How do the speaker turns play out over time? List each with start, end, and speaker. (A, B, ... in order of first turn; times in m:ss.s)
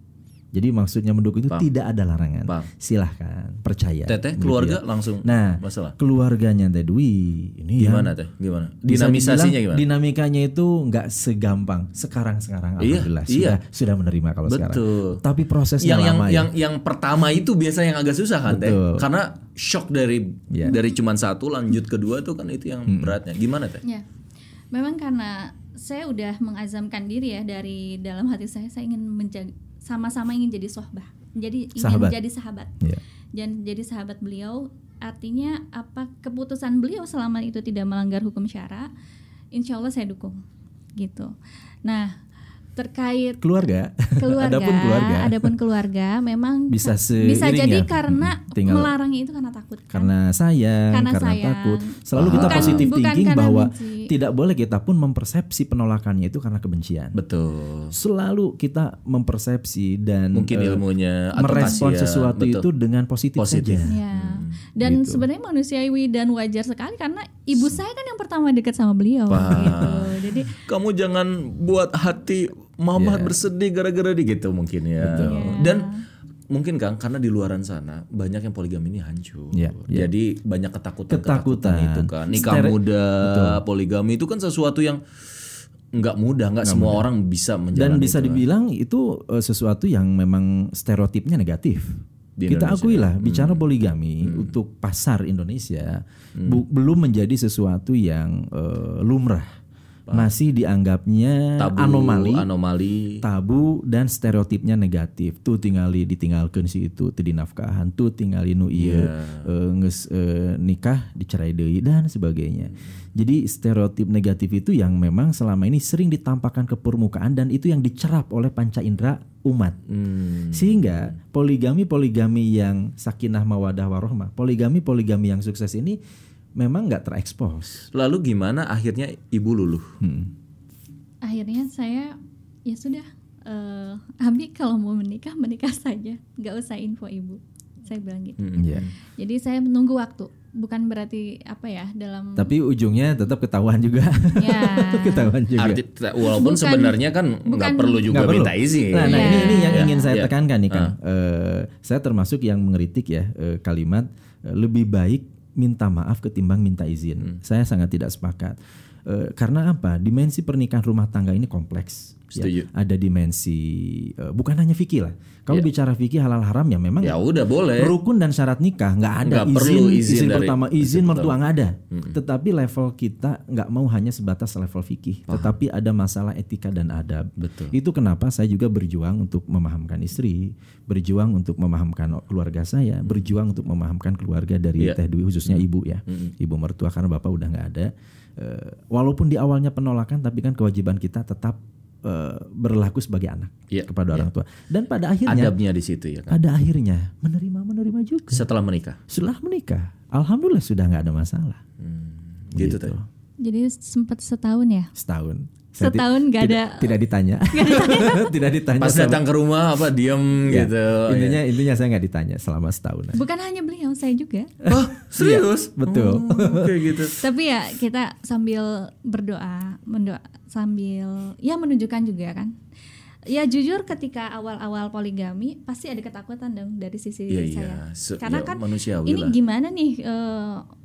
0:00.5-0:08.1 A
0:04.1-0:06.0 B
0:07.8-0:09.8 B
0:08.9-0:16.5 A
0:12.8-0:13.6 B
0:14.5-0:15.2 B
0:15.8-0:23.8 B
0:18.5-0:19.1 A
0:20.5-0:20.8 A
0:22.9-0:23.1 A
0:24.7-0:32.7 C
0:31.8-0:32.2 A
0:33.4-0:38.9 C
0:39.5-0:40.4 C
0:41.0-0:41.3 C
0:41.8-0:42.2 C
0:42.8-0:43.4 C
0:43.4-0:45.5 A
0:44.2-0:50.1 C
0:46.7-0:48.9 A
0:49.9-0:57.2 A
0:50.9-0:54.1 C
0:52.2-0:52.9 B
0:57.1-0:57.9 B
0:57.9-1:00.8 A
1:00.3-1:02.7 B
1:01.4-1:04.0 A
1:01.4-1:01.8 C
1:03.4-1:04.5 B
1:03.9-1:10.5 C
1:04.8-1:05.2 A
1:09.3-1:15.9 B
1:13.0-1:13.4 A
1:15.0-1:15.6 A
1:15.2-1:16.0 C
1:16.5-1:25.0 B
1:19.5-1:20.1 A
1:21.1-1:23.6 A
1:25.9-1:28.4 B
1:26.6-1:27.0 A
1:27.8-1:39.5 A
1:32.4-1:33.6 B
1:34.2-1:34.5 B
1:36.4-1:36.6 B
1:40.1-1:42.5 A
1:41.6-1:43.2 B
1:43.2-1:59.8 A
1:48.8-1:49.5 B
1:59.9-2:00.9 B
2:00.5-2:06.0 A
2:06.6-2:07.9 A
2:07.9-2:09.9 B
2:10.0-2:10.3 A
2:11.2-2:18.6 C
2:18.4-2:18.9 B
2:18.6-2:18.9 A
2:19.2-2:22.5 C
2:22.4-2:25.8 A
2:24.4-2:25.3 C
2:25.6-2:30.9 B
2:26.2-2:28.1 C
2:28.1-3:15.6 A
2:29.0-2:30.1 C
2:42.3-2:42.7 B
2:47.0-2:48.0 B
2:49.2-2:51.4 B
2:51.9-2:52.2 B
2:55.3-2:55.5 B
2:57.4-2:57.7 B
3:03.0-3:03.3 B
3:04.8-3:06.3 B
3:13.7-3:14.3 B
3:15.3-3:16.4 B
3:16.3-3:18.4 A
3:18.3-3:19.0 B
3:19.1-3:21.6 A
3:21.8-3:23.0 B
3:22.5-3:23.1 A
3:23.4-3:24.9 C
3:25.0-3:29.2 A
3:25.8-3:27.0 C
3:27.5-3:28.3 C
3:28.8-3:31.4 B
3:30.5-3:33.2 A
3:33.1-3:34.5 C
3:34.6-3:37.0 A
3:34.7-3:37.1 B
3:37.2-3:42.5 C
3:43.3-3:50.6 C
3:47.3-3:49.4 B